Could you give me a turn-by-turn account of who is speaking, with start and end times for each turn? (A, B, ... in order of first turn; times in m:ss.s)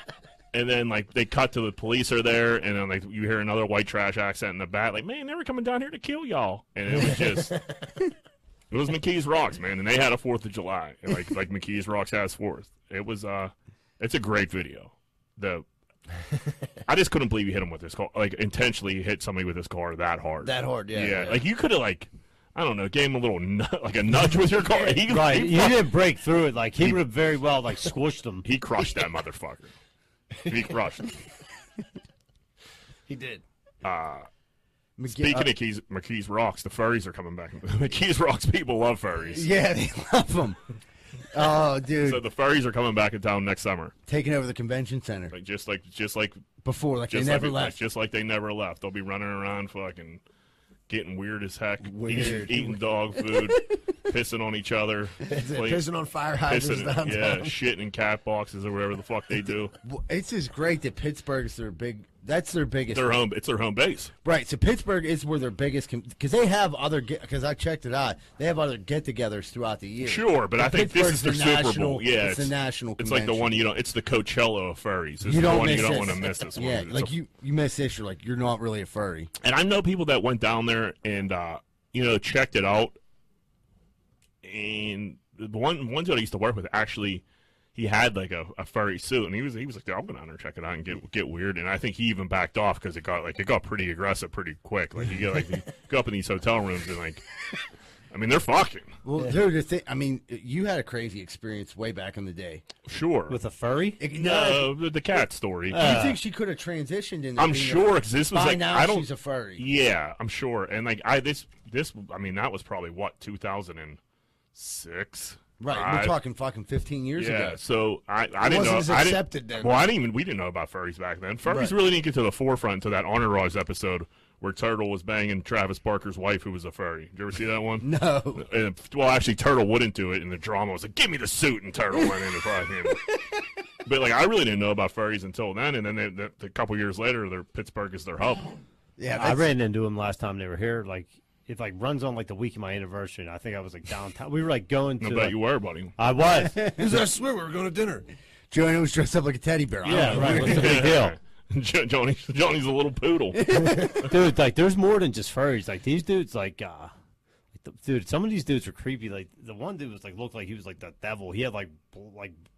0:00.5-0:07.6 A
0:07.0-0:07.4 B
0:08.7-0:15.6 A
0:16.8-0:25.8 A
0:20.4-0:21.4 B
0:25.1-0:28.4 C
0:28.4-0:29.7 A
0:30.4-0:31.2 A
0:33.1-0:33.4 B
0:33.8-0:34.3 A
0:35.0-0:35.5 D
0:35.1-0:39.5 A
0:39.3-0:40.6 D
0:41.3-0:42.2 D
0:42.0-0:43.9 A
0:44.1-0:45.3 D
0:45.3-0:46.4 A
0:46.6-0:47.8 D
0:47.1-0:50.2 A
0:50.9-0:55.8 A
0:51.8-0:52.8 B
0:55.2-0:57.5 B
0:56.4-0:59.7 A
0:59.8-1:03.2 D
1:02.9-1:04.1 A
1:04.2-1:13.5 D
1:10.0-1:17.1 A
1:15.2-1:19.3 D
1:19.4-1:23.0 A
1:24.4-1:27.2 A
1:27.7-1:37.2 A
1:38.1-1:39.0 A
1:39.0-1:42.6 D
1:42.8-1:43.4 A
1:43.3-1:44.0 C
1:44.0-1:44.7 D
1:44.1-1:46.0 A
1:45.7-1:46.2 C
1:45.7-1:49.6 D
1:47.4-1:54.0 A
1:54.5-1:56.2 A
1:55.6-1:57.6 D
1:57.2-2:13.0 A
1:58.4-1:59.8 B
2:01.4-2:01.8 D
2:07.8-2:08.4 D
2:13.8-2:18.5 A
2:19.0-2:19.5 D
2:19.1-2:25.4 C
2:25.0-2:25.9 A
2:26.0-2:26.6 C
2:26.3-2:27.0 D
2:26.8-2:28.1 B
2:28.5-2:31.0 D
2:29.8-2:31.2 C
2:29.9-2:33.9 A
2:33.3-2:34.1 D
2:33.6-2:36.9 C
2:37.5-2:42.4 C